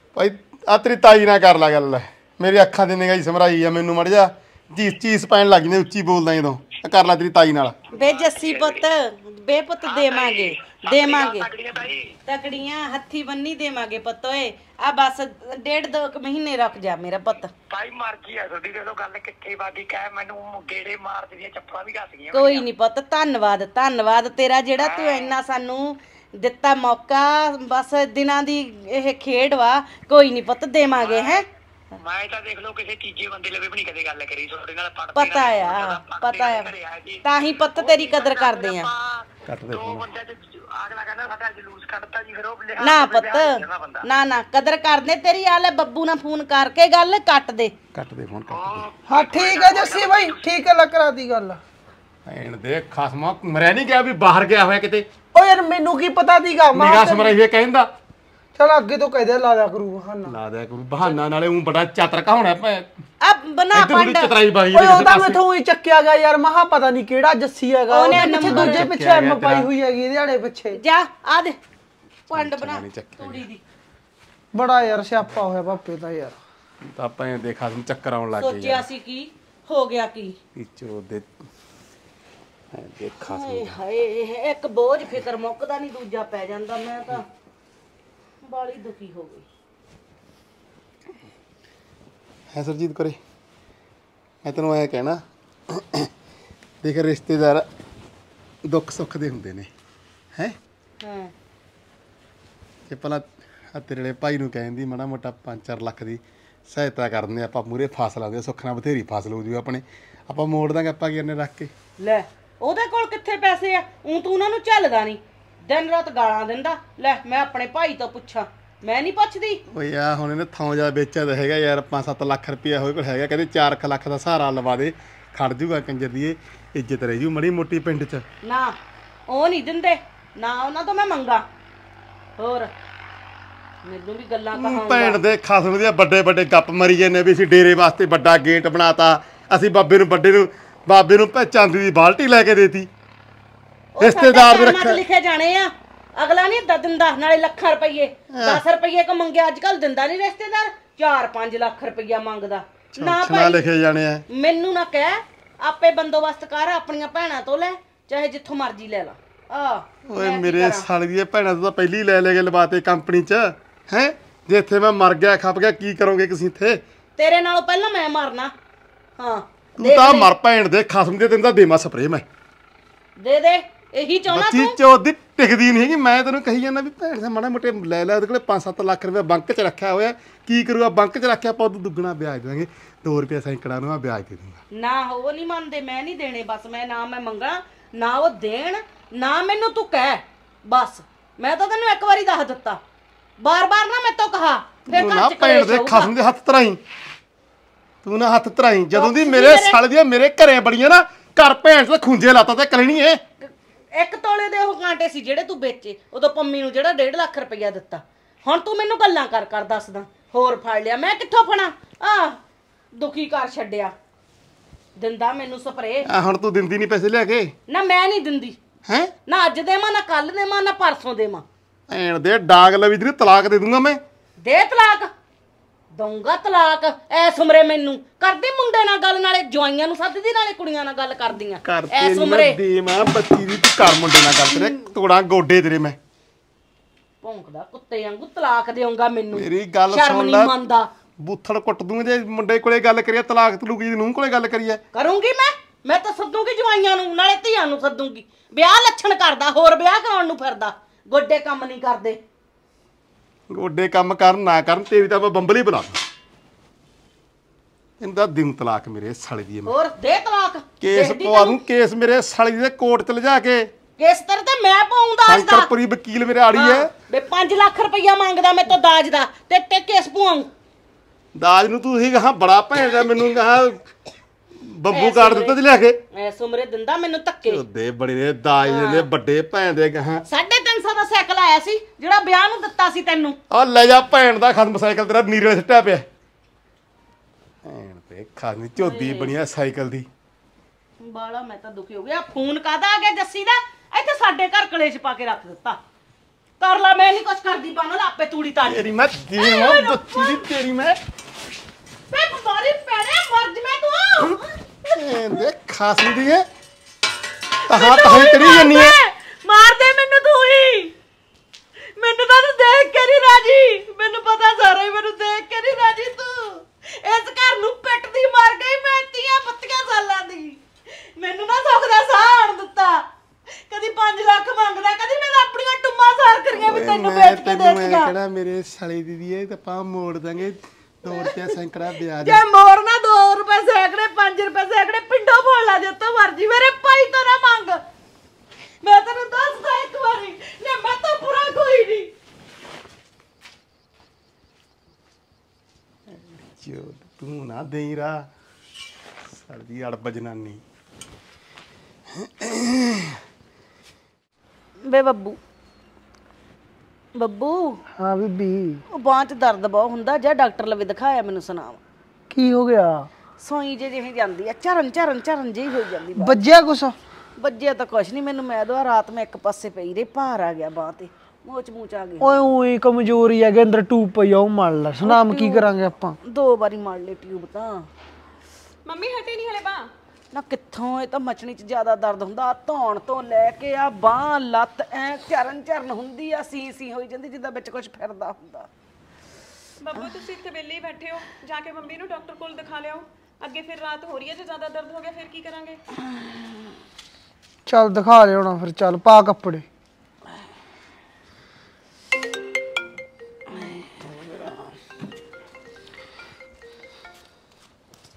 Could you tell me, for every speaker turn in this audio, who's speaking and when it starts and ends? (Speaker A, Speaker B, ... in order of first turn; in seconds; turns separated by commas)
Speaker A: 0.1-7.8, Speaker B: 7.9-8.9, Speaker C: 7.9-11.5, Speaker B: 9.8-12.1, Speaker C: 12.2-17.5, Speaker B: 17.7-22.7, Speaker C: 22.3-31.4, Speaker B: 24.8-25.4, Speaker B: 31.0-31.4, Speaker B: 32.0-37.2, Speaker C: 35.1-36.7, Speaker C: 37.2-38.9, Speaker B: 37.7-44.1, Speaker A: 39.5-40.1, Speaker C: 42.8-47.7, Speaker A: 47.9-48.9, Speaker B: 48.5-50.4, Speaker D: 49.1-51.6, Speaker A: 52.2-55.1, Speaker D: 55.3-57.4, Speaker A: 56.7-57.9, Speaker D: 58.6-60.3, Speaker A: 60.3-62.9, Speaker C: 63.2-64.3, Speaker A: 63.7-65.4, Speaker D: 64.7-70.8, Speaker C: 67.9-68.9, Speaker A: 68.1-69.7, Speaker C: 70.7-71.6, Speaker C: 72.3-73.6, Speaker A: 72.3-73.5, Speaker D: 74.5-76.4, Speaker A: 76.8-78.9, Speaker C: 78.4-80.4, Speaker A: 80.5-81.5, Speaker A: 82.7-83.8, Speaker C: 83.2-87.3, Speaker C: 88.4-89.5, Speaker A: 92.5-93.2, Speaker A: 94.4-96.1, Speaker A: 96.8-97.7, Speaker A: 98.7-99.7, Speaker C: 101.0-101.3, Speaker A: 102.9-111.7, Speaker C: 112.0-119.6, Speaker A: 119.7-128.2, Speaker C: 128.4-128.8, Speaker C: 129.3-131.5, Speaker C: 132.4-132.7, Speaker C: 133.8-135.2, Speaker A: 134.5-142.9, Speaker C: 144.0-153.6, Speaker A: 144.0-145.0, Speaker A: 148.3-148.6, Speaker A: 152.9-154.2, Speaker C: 154.3-160.9, Speaker A: 160.1-166.8, Speaker C: 167.2-168.5, Speaker C: 169.2-170.3, Speaker A: 169.8-172.3, Speaker C: 173.2-174.8, Speaker A: 174.3-184.6, Speaker C: 184.7-192.8, Speaker C: 193.4-196.1, Speaker A: 194.9-196.8, Speaker A: 198.0-203.2, Speaker C: 198.9-199.8, Speaker C: 203.4-212.4, Speaker C: 212.9-213.9, Speaker C: 215.0-216.1, Speaker A: 216.1-217.5, Speaker C: 217.7-218.6, Speaker C: 219.3-221.4, Speaker A: 221.9-224.0, Speaker C: 224.4-225.1, Speaker C: 225.9-232.6, Speaker A: 231.6-236.0, Speaker C: 234.6-234.9, Speaker C: 237.2-240.9, Speaker A: 239.3-240.6, Speaker A: 241.2-244.8, Speaker C: 244.9-252.2, Speaker A: 253.5-256.0, Speaker A: 258.0-259.7, Speaker C: 259.7-261.6, Speaker A: 260.8-263.7, Speaker C: 264.0-265.7, Speaker A: 265.2-266.9, Speaker C: 266.5-270.5, Speaker A: 271.4-273.9, Speaker A: 274.6-276.0, Speaker C: 274.9-275.6, Speaker C: 276.1-277.6, Speaker A: 277.5-280.2, Speaker C: 278.6-279.1, Speaker C: 280.3-283.4, Speaker A: 283.5-286.1, Speaker A: 287.6-290.1, Speaker C: 288.8-289.4, Speaker C: 291.0-295.8, Speaker C: 296.6-300.4, Speaker A: 298.7-301.0, Speaker C: 302.1-304.5, Speaker A: 304.9-306.5, Speaker C: 307.7-310.9, Speaker A: 307.7-308.9, Speaker C: 312.0-320.6, Speaker C: 321.2-323.0, Speaker C: 323.7-328.1, Speaker A: 326.6-332.4, Speaker C: 331.1-331.5, Speaker C: 332.2-337.8, Speaker C: 338.8-342.1, Speaker A: 346.1-348.3, Speaker A: 349.4-350.6, Speaker A: 352.1-353.2, Speaker C: 354.8-355.4, Speaker C: 357.2-357.8, Speaker D: 358.0-358.8, Speaker C: 358.9-361.8, Speaker D: 362.3-363.1, Speaker C: 363.4-366.4, Speaker D: 366.2-367.0, Speaker C: 367.4-372.4, Speaker D: 372.2-376.2, Speaker C: 375.0-375.7, Speaker C: 376.2-377.9, Speaker E: 378.9-379.9, Speaker C: 380.3-388.7, Speaker E: 389.8-395.8, Speaker D: 397.7-399.7, Speaker C: 403.5-404.7